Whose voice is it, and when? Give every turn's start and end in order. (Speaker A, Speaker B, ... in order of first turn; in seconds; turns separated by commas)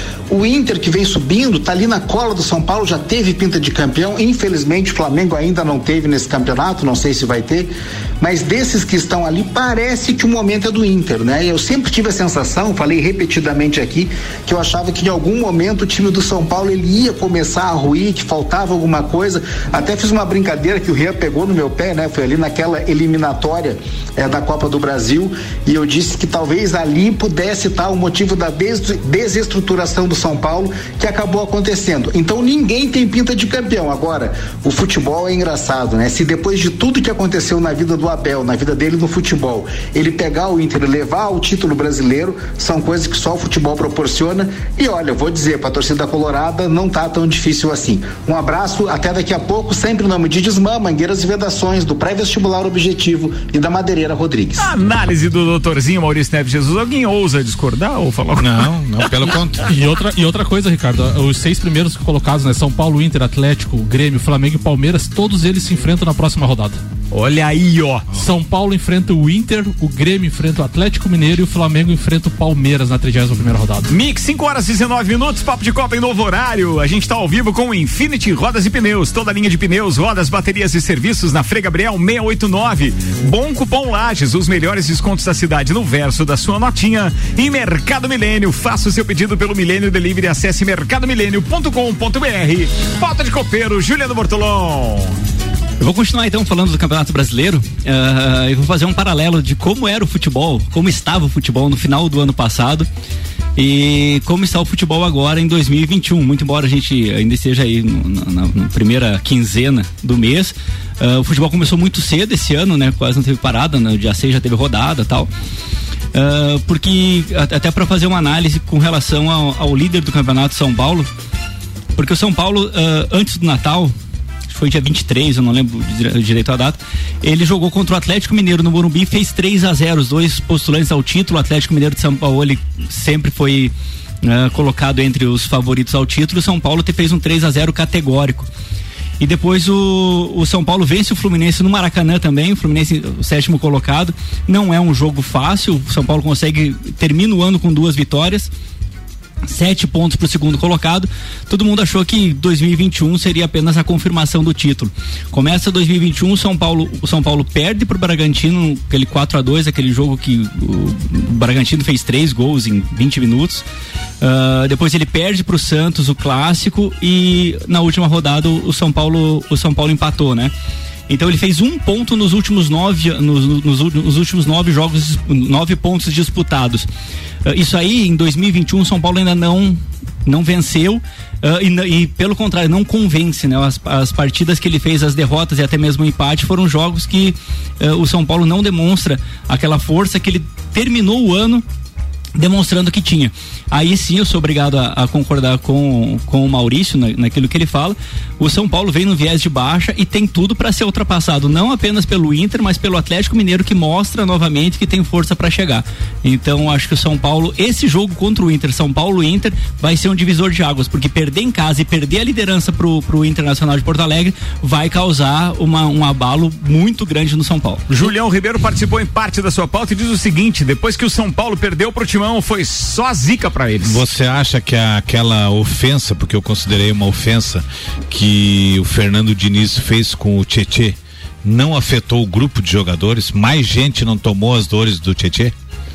Speaker A: 0.3-54.7, Speaker B: 54.6-59.5, Speaker C: 58.4-59.6, Speaker D: 59.7-66.8, Speaker B: 67.1-68.0, Speaker D: 68.1-73.9, Speaker B: 73.9-95.2, Speaker E: 95.8-102.9, Speaker E: 103.5-115.3, Speaker E: 116.1-121.1, Speaker E: 122.0-123.9, Speaker E: 124.5-133.7, Speaker E: 134.2-138.5, Speaker E: 139.2-148.5, Speaker E: 149.5-163.6, Speaker E: 164.2-170.5, Speaker E: 171.1-176.9, Speaker E: 177.4-191.6, Speaker E: 192.3-218.1, Speaker B: 217.9-224.0, Speaker C: 223.8-235.5